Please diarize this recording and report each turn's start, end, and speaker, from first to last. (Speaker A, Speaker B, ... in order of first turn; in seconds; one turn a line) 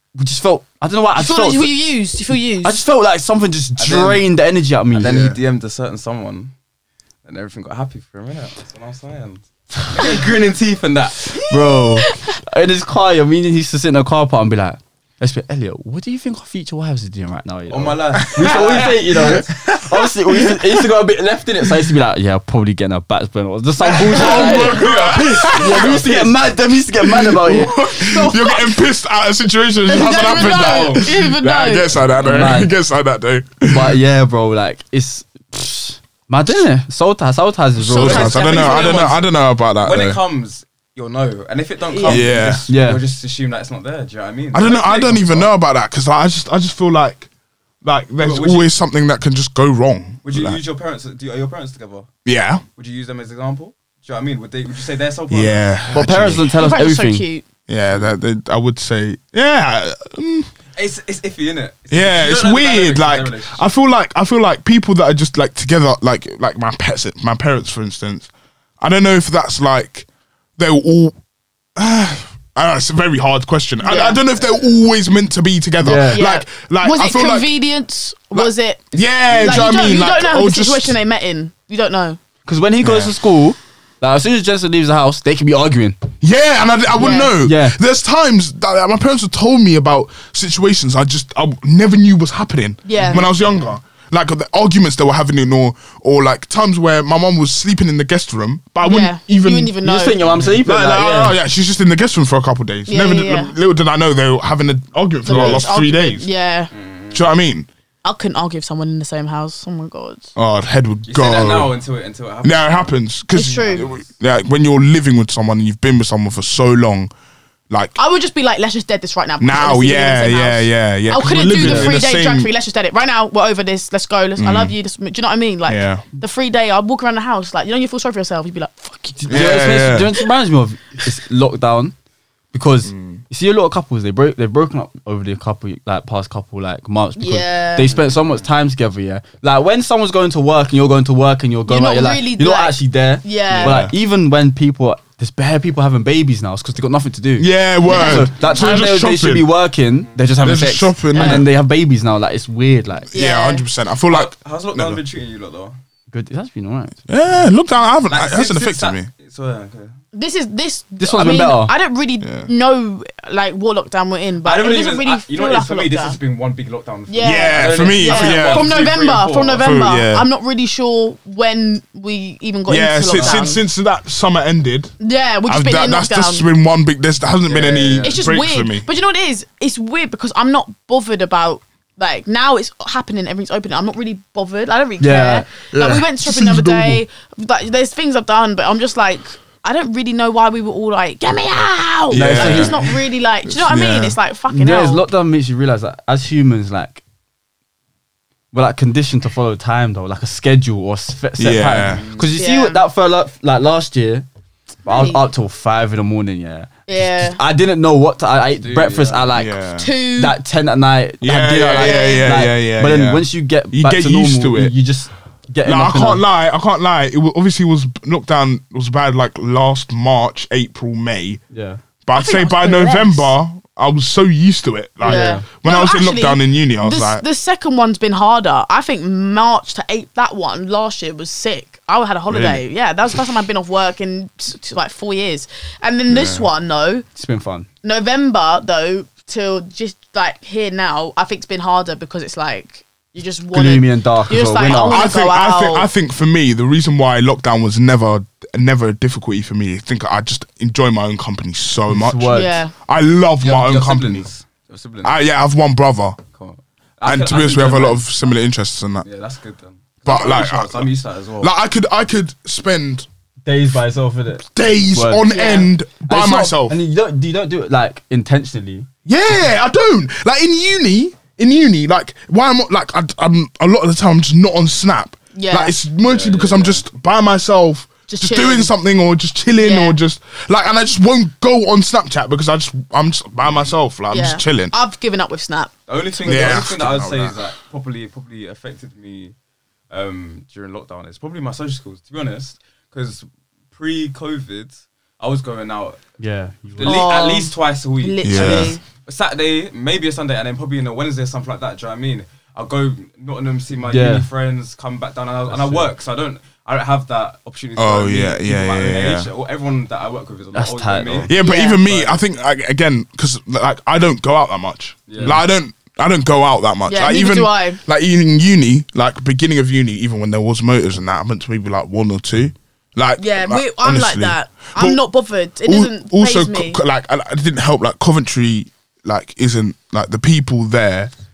Speaker A: 0.1-1.8
Speaker B: 1.2-2.8
Speaker A: 2.6-5.2
Speaker C: 3.8-4.2
Speaker C: 4.9-6.5
Speaker D: 5.0-5.4
Speaker C: 7.2-11.3
Speaker A: 11.4-27.8
Speaker B: 12.0-12.3
Speaker C: 17.7-19.5
Speaker D: 18.4-20.7
Speaker D: 23.8-26.2
Speaker C: 24.0-26.3
Speaker D: 27.0-34.0
Speaker B: 27.6-28.8
Speaker B: 29.9-31.9
Speaker C: 30.2-31.1
Speaker C: 32.0-32.6
Speaker A: 32.2-32.7
Speaker A: 33.7-38.6
Speaker D: 37.8-40.2
Speaker B: 37.9-39.2
Speaker C: 38.1-39.2
Speaker C: 39.8-45.5
Speaker B: 41.9-42.3
Speaker D: 42.0-42.7
Speaker A: 42.7-43.0
Speaker D: 44.5-47.3
Speaker D: 47.8-50.6
Speaker C: 48.2-48.7
Speaker C: 50.2-52.1
Speaker D: 52.2-52.6
Speaker C: 52.8-55.7
Speaker D: 55.3-56.5
Speaker A: 55.9-57.3
Speaker B: 56.6-57.5
Speaker D: 57.7-60.5
Speaker C: 60.8-63.6
Speaker D: 61.9-68.3
Speaker D: 68.8-70.1
Speaker D: 70.6-71.2
Speaker D: 71.8-77.5
Speaker B: 73.8-74.2
Speaker C: 74.4-74.7
Speaker A: 75.8-76.2
Speaker B: 76.1-82.2
Speaker D: 78.3-81.0
Speaker C: 79.3-80.0
Speaker A: 82.5-86.0
Speaker D: 82.8-83.2
Speaker D: 86.2-99.8
Speaker B: 87.0-87.3
Speaker A: 87.0-87.8
Speaker B: 92.8-93.3
Speaker B: 98.8-100.2
Speaker A: 99.8-101.4
Speaker C: 100.2-100.6
Speaker D: 100.6-106.3
Speaker B: 102.9-103.5
Speaker B: 105.2-106.7
Speaker A: 105.3-105.6
Speaker C: 106.7-107.3
Speaker D: 107.1-107.7
Speaker B: 108.0-110.3
Speaker D: 110.4-111.7
Speaker C: 111.1-112.9
Speaker D: 112.4-117.1
Speaker B: 113.3-113.9
Speaker C: 113.5-114.0
Speaker D: 117.7-118.0
Speaker B: 118.0-129.6
Speaker D: 119.4-122.5
Speaker A: 121.5-122.0
Speaker D: 124.4-124.8
Speaker D: 125.7-126.0
Speaker A: 129.2-131.9
Speaker D: 129.3-130.2
Speaker A: 132.5-153.1
Speaker D: 132.8-133.2
Speaker B: 137.2-137.9
Speaker C: 137.9-138.5
Speaker B: 141.7-143.8
Speaker D: 143.6-143.9
Speaker D: 147.4-149.5
Speaker B: 147.9-148.7
Speaker D: 150.4-151.5
Speaker B: 151.1-151.4
Speaker D: 153.1-155.0
Speaker B: 153.1-153.7
Speaker C: 154.1-155.8
Speaker A: 156.1-157.0
Speaker D: 157.1-159.1
Speaker C: 158.1-160.0
Speaker B: 160.1-166.2
Speaker A: 161.0-161.8
Speaker D: 162.2-162.5
Speaker C: 164.4-169.8
Speaker B: 167.1-173.6
Speaker D: 167.2-168.8
Speaker D: 169.6-170.3
Speaker D: 172.7-174.9
Speaker C: 173.1-173.4
Speaker B: 175.0-176.5
Speaker D: 175.5-178.9
Speaker C: 177.5-178.3
Speaker B: 178.0-195.0
Speaker A: 185.0-185.7
Speaker D: 185.7-187.0
Speaker D: 192.1-192.9
Speaker A: 192.1-192.9
Speaker D: 193.5-194.2
Speaker A: 194.5-197.0
Speaker A: 198.5-204.3
Speaker D: 201.4-202.0
Speaker C: 201.8-202.3
Speaker B: 202.4-202.8
Speaker A: 204.8-209.6
Speaker B: 204.9-205.2
Speaker B: 206.9-207.4
Speaker C: 208.6-209.3
Speaker D: 209.3-209.9
Speaker B: 209.8-210.4
Speaker A: 210.2-216.2
Speaker D: 211.2-214.7
Speaker B: 211.7-212.4
Speaker D: 215.7-221.4
Speaker A: 221.5-221.8
Speaker D: 222.1-227.2
Speaker B: 222.1-223.3
Speaker A: 225.0-225.4
Speaker B: 225.0-237.1
Speaker D: 232.3-232.6
Speaker D: 236.1-236.5
Speaker A: 237.2-237.7
Speaker B: 237.8-245.9
Speaker A: 243.5-245.1
Speaker D: 244.9-254.3
Speaker A: 251.9-252.6
Speaker B: 252.3-252.7
Speaker C: 253.4-255.2
Speaker D: 255.0-256.2
Speaker C: 256.3-258.3
Speaker D: 257.1-259.1
Speaker C: 259.0-261.5
Speaker D: 260.1-263.1
Speaker A: 263.5-268.9
Speaker D: 264.5-266.8
Speaker B: 265.2-265.7
Speaker D: 269.1-284.7
Speaker B: 275.4-275.7
Speaker C: 276.0-276.9
Speaker B: 278.1-278.7
Speaker B: 279.6-280.0
Speaker B: 284.1-285.7
Speaker C: 285.9-289.3
Speaker D: 286.2-287.4
Speaker B: 286.3-286.6
Speaker C: 289.9-296.0
Speaker A: 296.2-297.1
Speaker C: 296.8-312.2
Speaker B: 296.8-298.8
Speaker D: 298.2-298.8
Speaker A: 298.3-298.8
Speaker A: 303.9-304.3
Speaker A: 305.5-305.9
Speaker D: 307.8-309.3
Speaker A: 310.5-311.3
Speaker D: 311.3-325.0
Speaker B: 311.3-311.8
Speaker C: 315.1-315.4
Speaker B: 316.9-317.8
Speaker B: 323.2-326.8
Speaker D: 325.6-331.1